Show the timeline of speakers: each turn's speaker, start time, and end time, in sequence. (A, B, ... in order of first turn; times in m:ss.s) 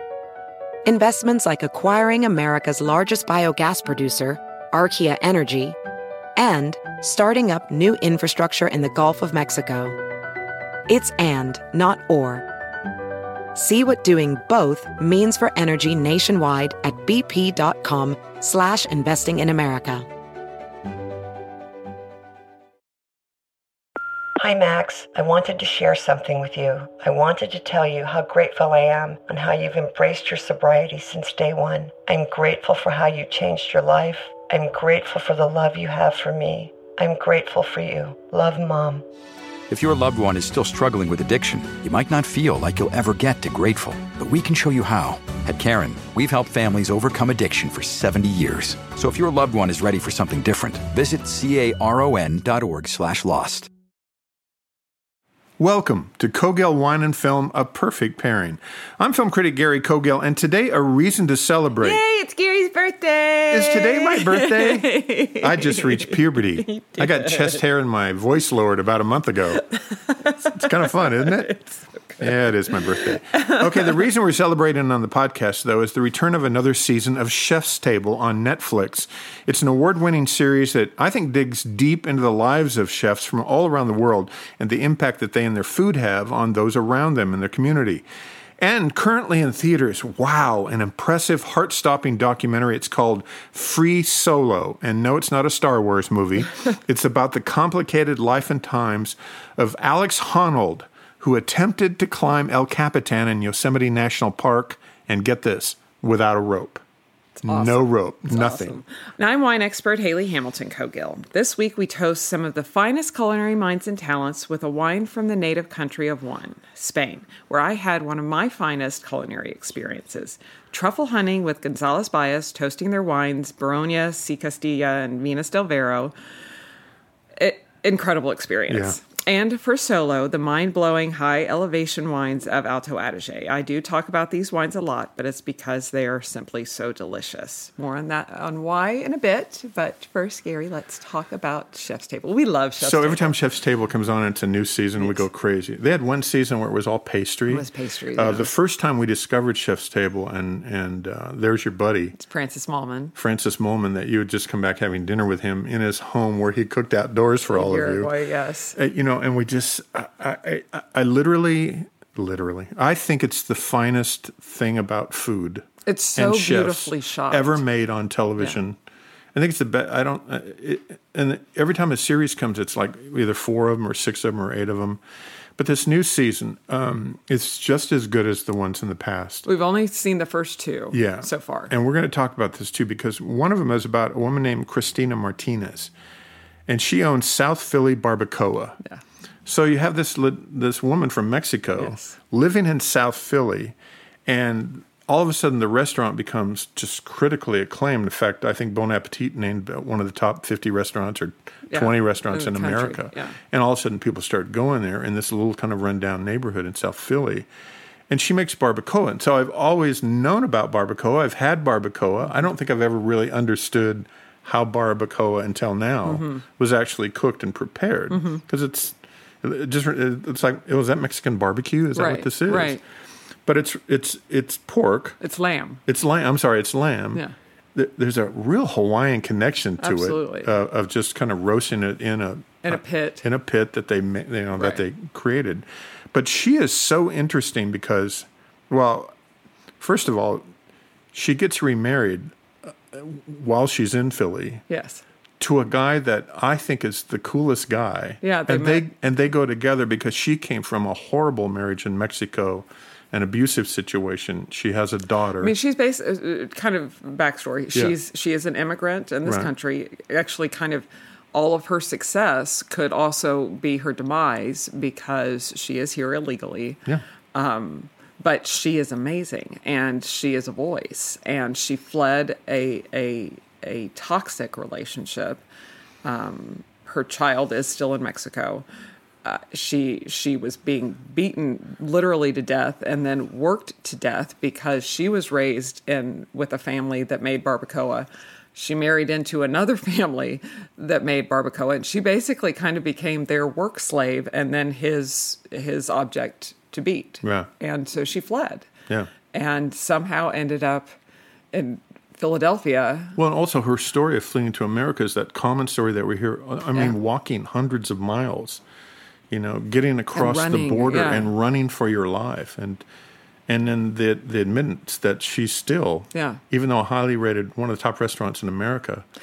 0:00.8-0:05.8 A
0:06.4-0:10.0 A
0:10.9-0:12.4 A
0:13.5-0:20.0 A
0:24.4-0:39.0 B
0:39.7-0:53.7 C
0:55.6-1:02.0 D
1:01.8-1:07.6 E
1:03.5-1:09.6 D
1:09.7-1:14.0 E
1:10.4-1:11.6 D
1:12.2-1:28.0 D
1:28.6-1:46.8 D
1:47.4-2:06.1 E
1:47.4-1:48.8 D
2:07.4-2:23.3 E
2:08.7-2:09.0 D
2:22.8-2:32.2 D
2:25.0-2:25.2 E
2:27.5-2:28.5 E
2:32.2-2:33.1 E
2:33.1-2:38.1 D
2:37.5-2:38.8 E
2:38.7-2:48.8 D
2:45.8-2:47.6 E
2:49.3-2:55.0 D
2:55.6-2:59.4 D
2:59.4-3:01.7 E
3:00.9-3:05.9 D
3:06.7-3:08.8 D
3:09.4-3:27.5 D
3:11.8-3:12.2 E
3:21.7-3:23.4 E
3:28.1-3:42.8 D
3:36.0-3:36.4 E
3:38.1-3:38.4 E
3:41.9-3:42.8 E
3:43.4-3:45.2 D
3:45.2-3:45.8 E
3:45.8-3:47.2 D
3:47.7-3:59.1 D
3:49.8-3:50.5 E
3:52.6-3:53.2 E
3:54.5-3:54.8 E
3:59.8-4:00.5 D
4:01.1-4:04.6 D
4:04.7-4:05.0 E
4:05.4-4:15.5 D
4:08.2-4:08.9 E
4:15.4-4:26.8 E
4:19.2-4:19.5 D
4:27.3-4:35.4 E
4:36.0-4:38.6 E
4:39.2-4:58.7 E
4:57.2-4:57.5 D
4:59.3-5:00.9 E
5:01.5-5:03.2 E
5:03.2-5:08.6 D
5:09.3-5:12.8 D
5:10.1-5:11.3 E
5:13.5-5:19.0 D
5:16.1-5:16.4 E